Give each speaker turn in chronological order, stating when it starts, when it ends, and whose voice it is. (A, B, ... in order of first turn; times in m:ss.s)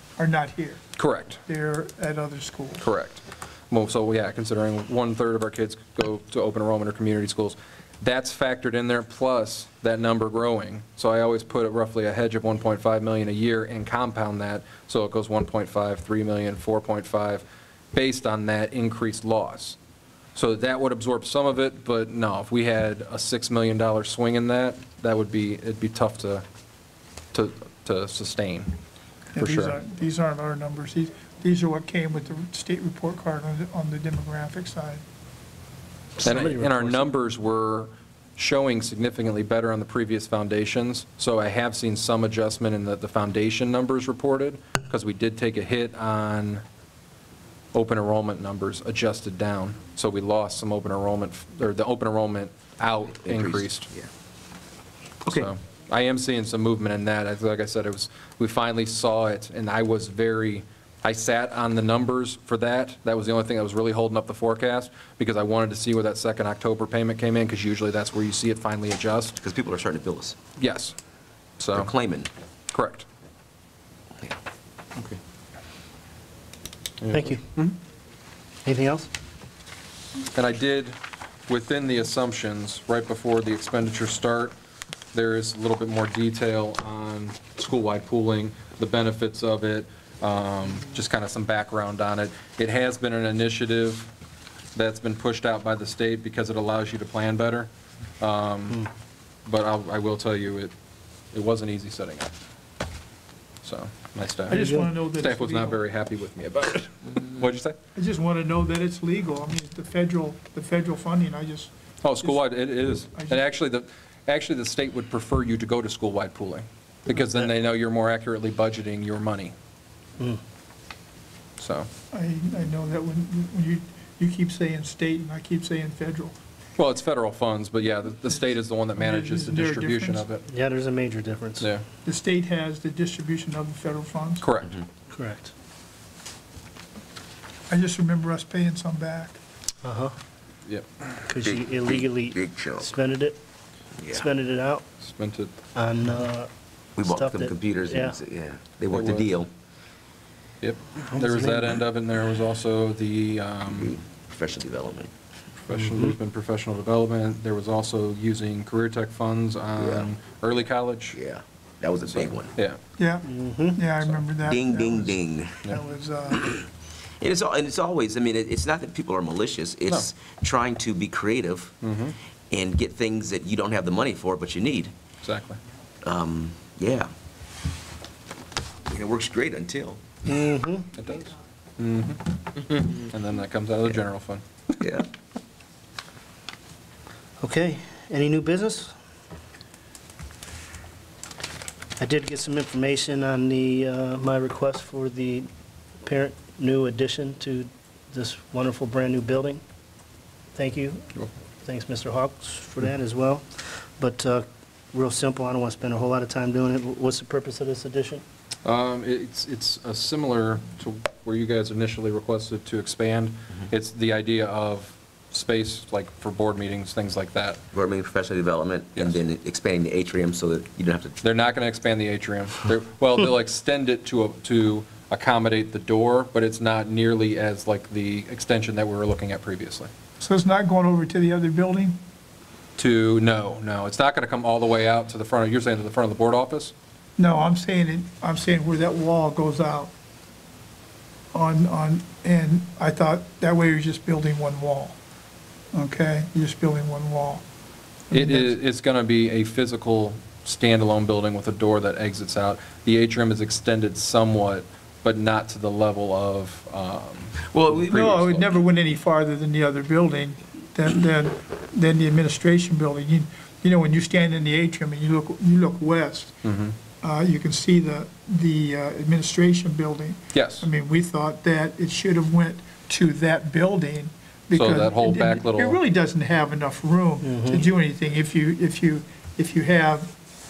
0:00.2-0:00.8 A
0:01.0-0:01.4 B
0:01.4-0:02.9 A
0:02.8-0:19.8 B
0:20.4-0:26.4 B
0:27.3-0:28.7 B
0:29.3-0:35.0 A
0:29.4-0:29.8 B
0:36.2-0:37.1 C
0:36.2-0:46.6 B
0:47.7-0:53.9 B
0:53.2-0:54.1 D
0:55.3-1:09.4 B
1:09.4-1:10.4 D
1:10.6-1:11.0 B
1:11.6-1:11.9 B
1:11.7-1:12.3 D
1:12.7-1:13.1 B
1:17.0-1:17.8 B
1:17.1-1:17.4 C
1:18.6-1:19.1 C
1:20.4-1:21.0 B
1:21.5-1:24.5 B
1:25.1-1:34.1 B
1:34.8-1:38.9 B
1:39.5-1:40.7 B
1:41.3-1:42.3 B
1:43.6-1:47.8 B
1:44.5-1:45.8 A
1:44.5-1:44.9 C
1:48.0-1:52.4 A
1:52.0-1:59.5 B
1:53.1-1:53.5 A
2:01.6-2:01.9 B
2:02.1-2:06.4 A
2:06.8-2:10.5 B
2:09.0-2:10.3 A
2:10.5-2:11.7 C
2:11.6-2:11.8 B
2:12.0-2:14.5 A
2:14.4-2:14.8 B
2:15.1-2:15.5 C
2:17.7-2:19.4 A
2:19.8-2:20.2 C
2:20.7-2:21.2 B
2:21.3-2:23.4 C
2:21.4-2:22.9 D
2:24.0-2:24.2 D
2:24.1-2:24.8 C
2:25.0-2:25.5 B
2:25.8-2:26.5 C
2:27.0-2:29.5 D
2:27.0-2:28.2 C
2:28.9-2:29.3 B
2:30.6-2:33.9 B
2:31.1-2:31.8 C
2:33.7-2:35.1 D
2:35.7-2:41.2 B
2:35.7-2:36.2 C
2:39.8-2:40.1 D
2:41.2-2:42.5 D
2:42.1-2:42.8 B
2:43.0-2:46.4 A
2:43.2-2:43.8 C
2:44.1-2:45.6 D
2:46.3-2:46.7 D
2:47.2-2:51.7 D
2:51.8-2:52.2 B
2:52.5-2:54.9 D
2:55.2-2:55.6 B
2:56.0-2:57.1 D
2:58.9-3:00.2 D
3:00.3-3:00.9 C
3:01.0-3:04.4 B
3:04.8-3:05.1 D
3:07.4-3:08.9 C
3:12.0-3:15.5 C
3:16.0-3:19.6 C
3:20.6-3:21.1 C
3:21.6-3:28.2 C
3:28.6-3:37.6 B
3:37.7-3:41.2 D
3:41.2-3:49.9 B
3:50.2-3:52.0 A
3:52.8-3:56.7 B
3:57.2-3:59.9 A
4:01.3-4:05.0 A
4:05.7-4:07.4 A
4:08.1-4:08.5 A
4:08.1-4:18.5 B
4:17.5-4:18.2 D
4:17.8-4:26.4 A
4:26.4-4:26.8 B
4:27.0-4:40.1 A
4:30.3-4:30.7 B
4:34.5-4:35.8 B
4:37.2-4:37.7 C